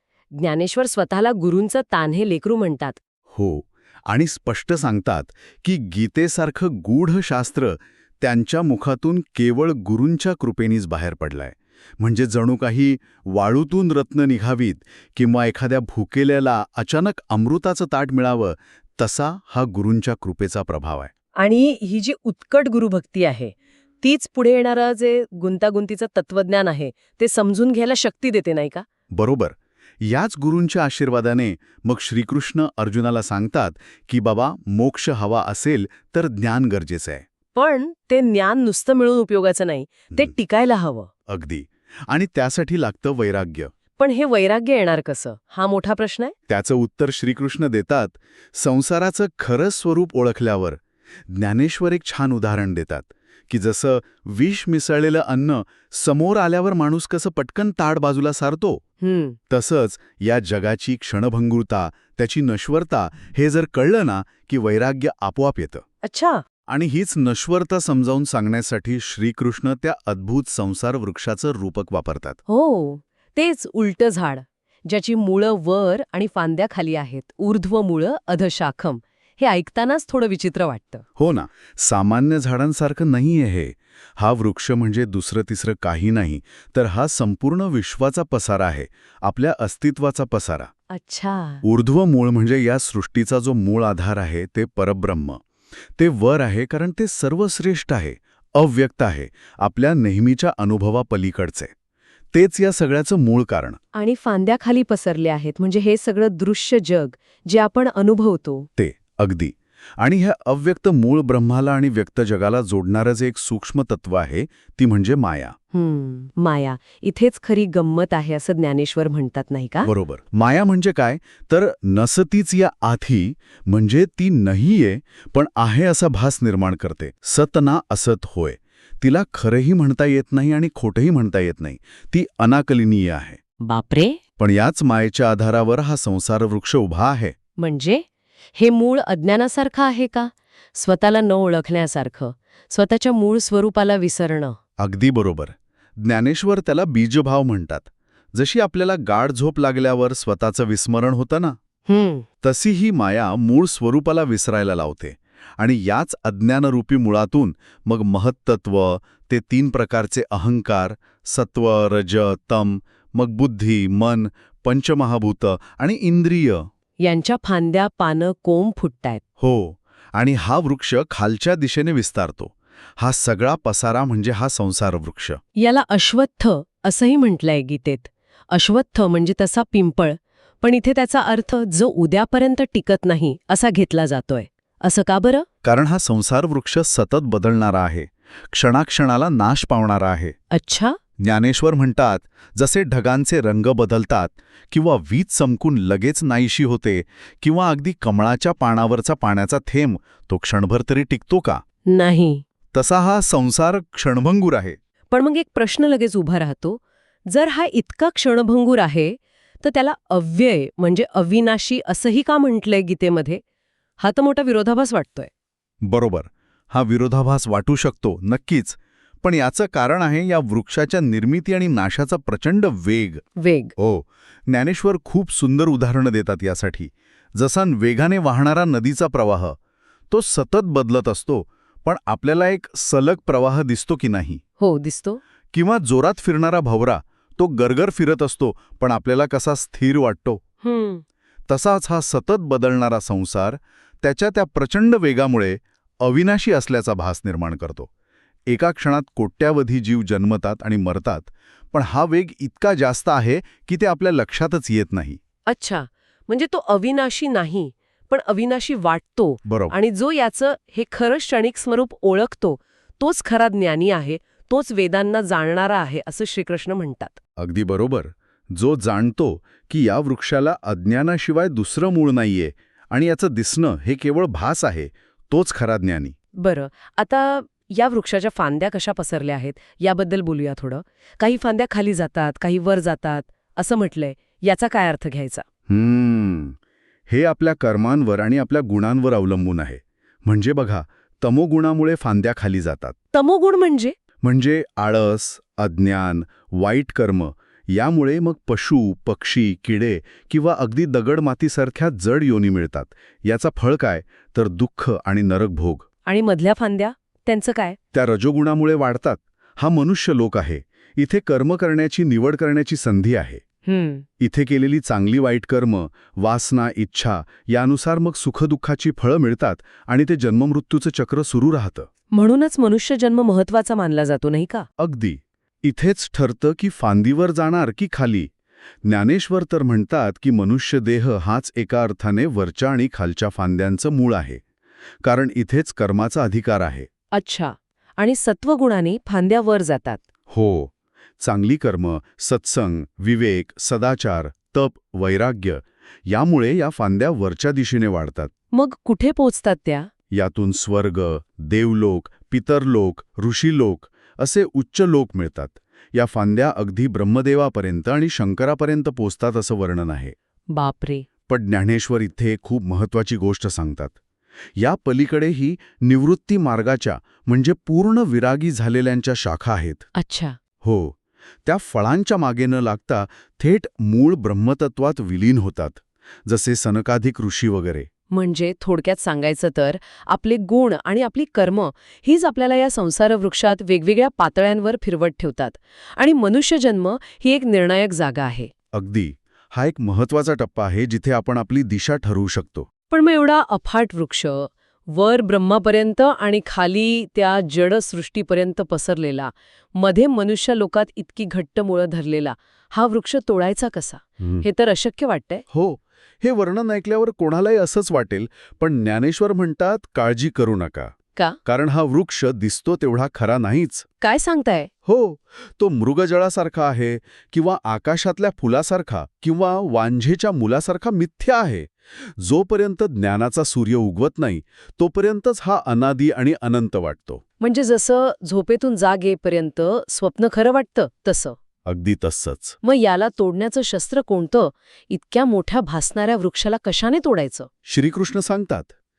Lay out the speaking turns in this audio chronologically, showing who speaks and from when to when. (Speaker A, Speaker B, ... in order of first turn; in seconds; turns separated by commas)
Speaker A: 0.4-3.0, Speaker B: 3.3-21.1, Speaker A: 21.4-28.9, Speaker B: 29.1-37.2, Speaker A: 37.5-41.1, Speaker B: 41.3-43.7, Speaker A: 44.0-46.3, Speaker B: 46.5-58.8, Speaker A: 59.0-59.4, Speaker B: 59.5-65.8, Speaker A: 66.0-66.4, Speaker B: 66.7-72.4, Speaker A: 72.5-81.0, Speaker B: 81.2-90.7, Speaker A: 90.9-91.6, Speaker B: 91.6-95.4, Speaker B: 96.0-101.7, Speaker B: 102.3-103.8, Speaker A: 104.0-108.7, Speaker B: 108.8-115.5, Speaker A: 115.7-119.9, Speaker B: 119.8-133.4, Speaker A: 133.6-134.2, Speaker B: 134.4-137.3, Speaker A: 137.6-138.0, Speaker A: 138.6-144.6, Speaker B: 144.8-151.6, Speaker A: 151.9-152.2, Speaker B: 152.4-166.7, Speaker A: 167.0-169.2, Speaker B: 169.4-175.4, Speaker A: 175.6-185.5, Speaker B: 185.6-190.3, Speaker A: 190.5-191.0, Speaker B: 191.2-201.6, Speaker A: 201.9-202.4, Speaker B: 202.7-204.8, Speaker A: 205.1-213.4, Speaker A: 214.0-215.3, Speaker B: 215.8-223.2, Speaker A: 223.4-223.7, Speaker B: 223.8-229.6, Speaker B: 230.1-234.4, Speaker A: 234.6-235.2, Speaker B: 235.5-240.4, Speaker A: 240.6-241.0, Speaker B: 241.5-247.9, Speaker B: 248.5-255.2, Speaker A: 255.5-267.2, Speaker B: 259.4-259.7, Speaker B: 267.4-276.1, Speaker A: 276.4-285.4, Speaker B: 285.7-286.6, Speaker B: 287.1-292.9, Speaker A: 293.1-293.9, Speaker B: 294.2-305.9, Speaker A: 306.1-307.8, Speaker B: 307.9-313.4, Speaker A: 313.6-314.1, Speaker B: 314.2-321.9, Speaker A: 322.1-324.7, Speaker B: 324.8-328.3, Speaker B: 328.9-334.4, Speaker B: 335.0-336.9, Speaker A: 337.1-340.0, Speaker B: 340.3-348.3, Speaker A: 348.5-349.9, Speaker B: 350.1-360.1, Speaker A: 360.5-361.1, Speaker B: 361.3-364.0, Speaker B: 364.6-369.9, Speaker A: 369.9-370.4, Speaker B: 370.6-377.9, Speaker A: 378.1-388.5, Speaker B: 388.7-392.7, Speaker A: 392.9-405.4, Speaker B: 404.2-404.4, Speaker B: 405.5-410.9, Speaker B: 411.4-413.9, Speaker A: 414.0-414.7, Speaker B: 414.9-427.2, Speaker A: 427.4-431.4, Speaker B: 431.7-432.6, Speaker A: 432.6-437.5, Speaker B: 437.7-438.7